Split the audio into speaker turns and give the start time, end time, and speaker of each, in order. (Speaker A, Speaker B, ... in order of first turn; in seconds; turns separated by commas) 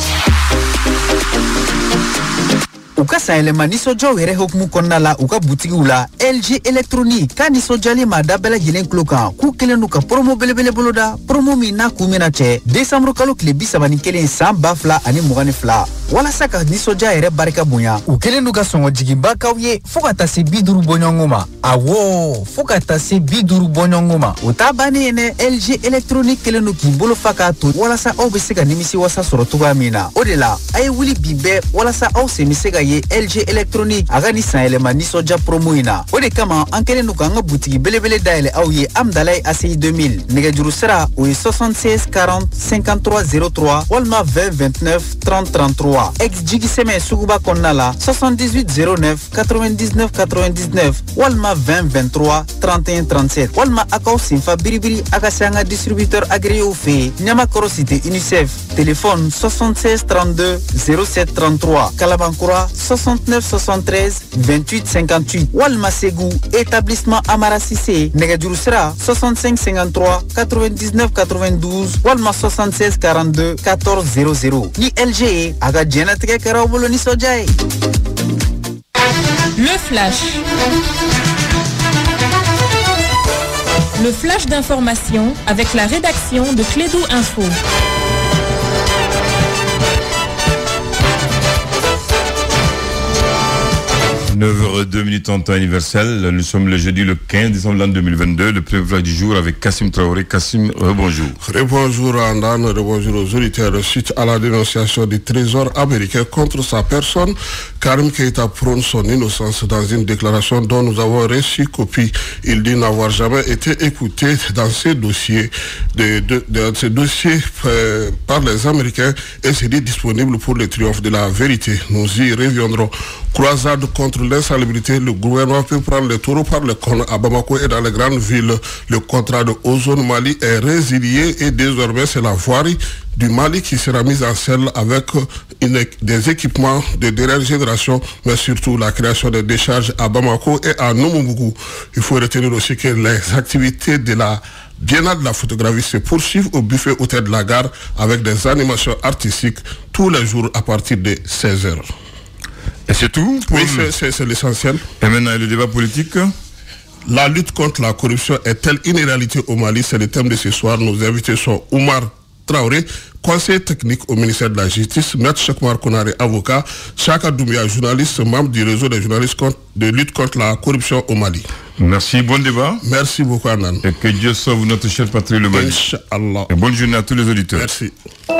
Speaker A: 3.0-77.5, Speaker B: 79.5-80.4, Speaker B: 84.0-87.6, Speaker C: 94.3-101.4, Speaker D: 101.4-151.9, Speaker C: 152.9-153.9, Speaker D: 153.5-154.8, Speaker C: 155.0-156.3, Speaker D: 157.1-171.5, Speaker C: 171.8-172.8, Speaker D: 172.8-173.8, Speaker C: 173.8-175.8, Speaker D: 175.5-176.5, Speaker C: 176.5-177.7, Speaker D: 177.5-177.9